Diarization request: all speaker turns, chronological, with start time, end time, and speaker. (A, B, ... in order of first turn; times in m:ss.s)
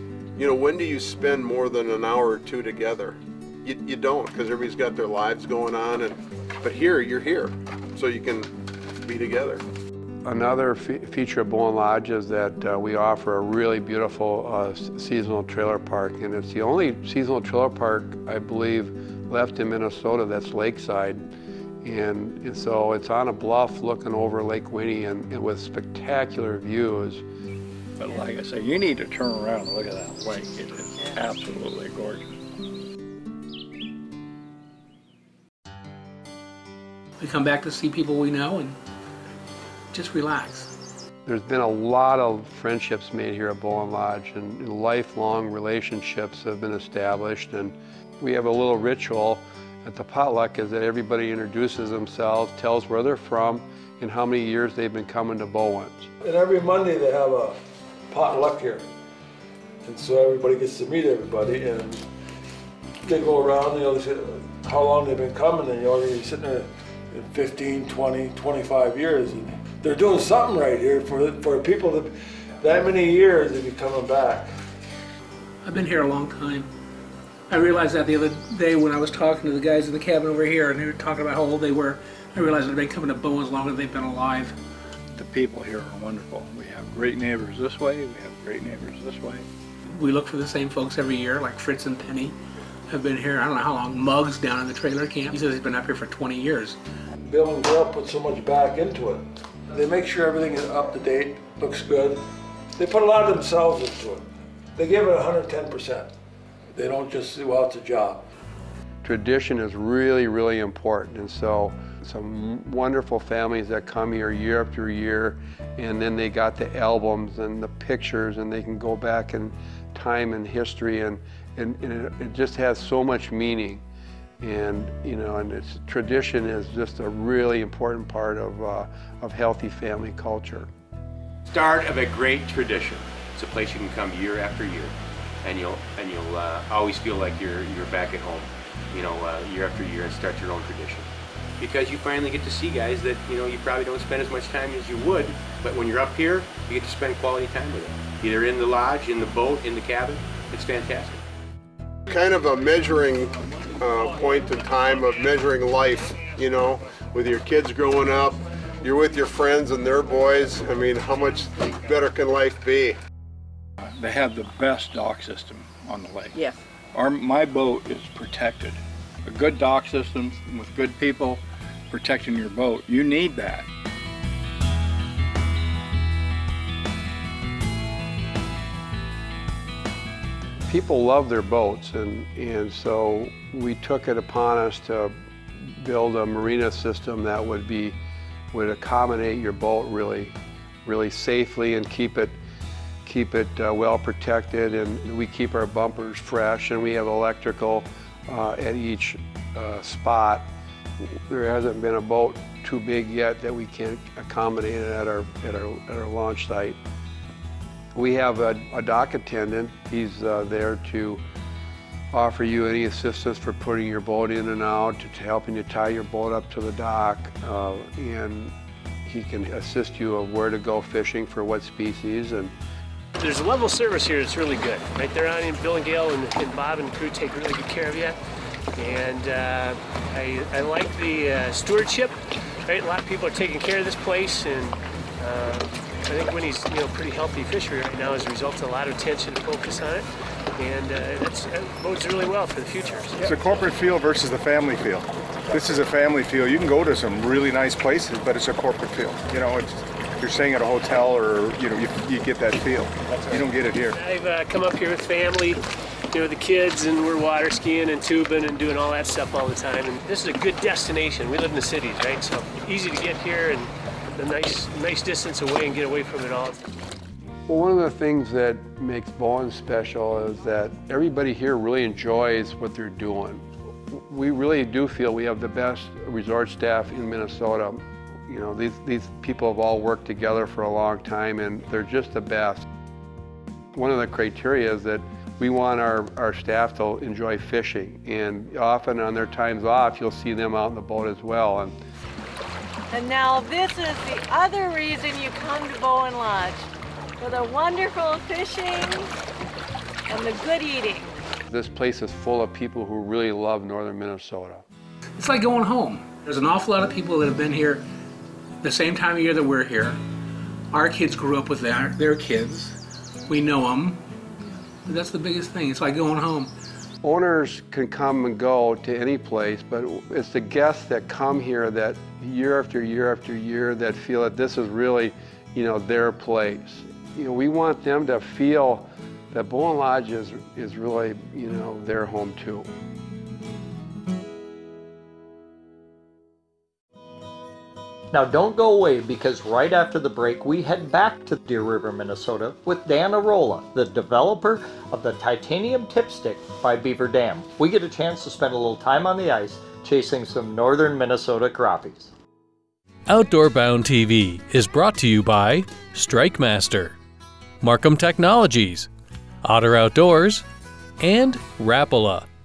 0:00.4-0:08.5 A
0:09.0-0:09.6 A
0:10.2-0:21.2 B
0:21.8-0:27.2 B
0:28.0-0:32.2 C
0:37.2-0:38.8 D
0:39.9-0:40.7 D
0:41.2-0:56.1 B
0:56.2-0:57.6 E
0:58.1-0:58.9 E
0:59.8-1:02.1 E
1:03.0-1:14.5 E
1:15.6-1:16.7 D
1:17.5-1:24.5 D
1:25.1-1:29.4 C
1:29.9-1:32.4 D
1:32.9-1:36.8 D
1:37.2-1:42.2 E
1:42.8-1:46.1 E
1:46.7-1:48.2 E
1:49.0-2:03.8 B
2:04.4-2:10.7 B
2:11.5-2:21.1 F
2:21.6-2:31.2 F
2:32.1-2:43.0 A
2:44.0-2:46.4 C
2:46.9-2:53.7 C
3:00.6-3:08.0 B
3:08.5-3:12.4 B
3:13.0-3:26.8 B
3:28.0-3:31.2 B
3:32.1-3:38.5 B
3:39.0-3:42.5 B
3:43.2-3:48.2 G
3:48.8-4:03.7 G
4:03.2-4:14.0 H
4:13.9-4:15.6 G
4:16.1-4:26.6 G
4:27.5-4:42.6 B
4:43.7-4:51.8 B
4:52.9-4:56.7 I
4:57.2-4:59.1 I
5:00.1-5:01.1 I
5:01.5-5:04.6 B
5:05.2-5:07.8 D
5:08.6-5:10.0 D
5:10.7-5:12.8 D
5:13.3-5:14.0 D
5:14.9-5:16.5 D
5:17.0-5:32.7 B
5:38.1-5:52.1 J
5:53.1-5:57.0 K
5:57.6-5:58.9 K
5:59.4-6:00.4 K
6:01.0-6:02.2 K